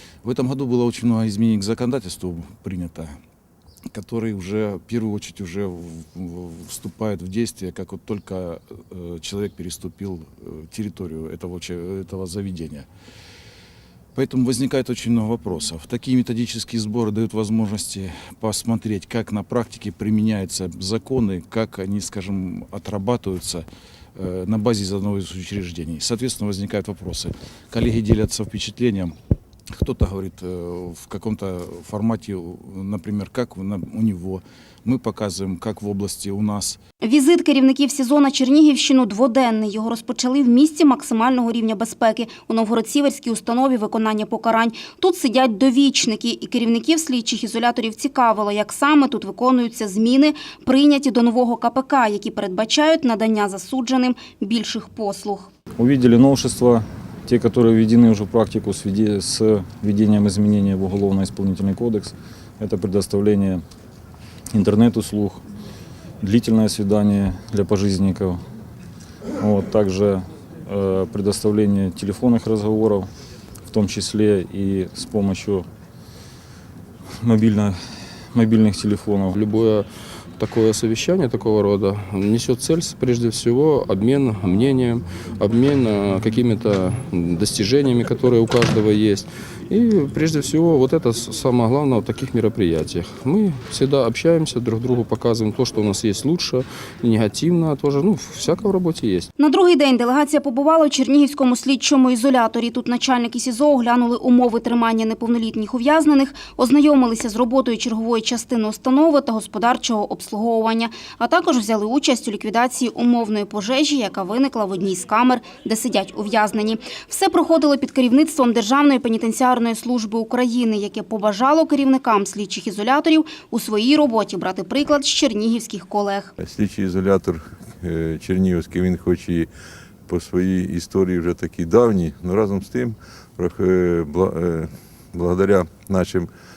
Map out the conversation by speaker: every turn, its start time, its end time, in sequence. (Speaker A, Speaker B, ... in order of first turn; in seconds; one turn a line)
Speaker A: 0.2-3.1
Speaker A: 3.9-12.9
Speaker A: 14.2-29.1
Speaker A: 29.7-36.8
Speaker B: 37.0-55.5
Speaker C: 55.8-63.6
Speaker C: 64.5-65.4
Speaker C: 66.2-68.4
Speaker C: 69.4-73.1
Speaker C: 73.7-75.7
Speaker C: 77.2-77.8
Speaker C: 78.3-79.4
Speaker D: 79.3-79.9
Speaker D: 80.4-99.3
Speaker B: 99.4-126.3
Speaker E: 126.4-129.5
Speaker E: 130.1-136.3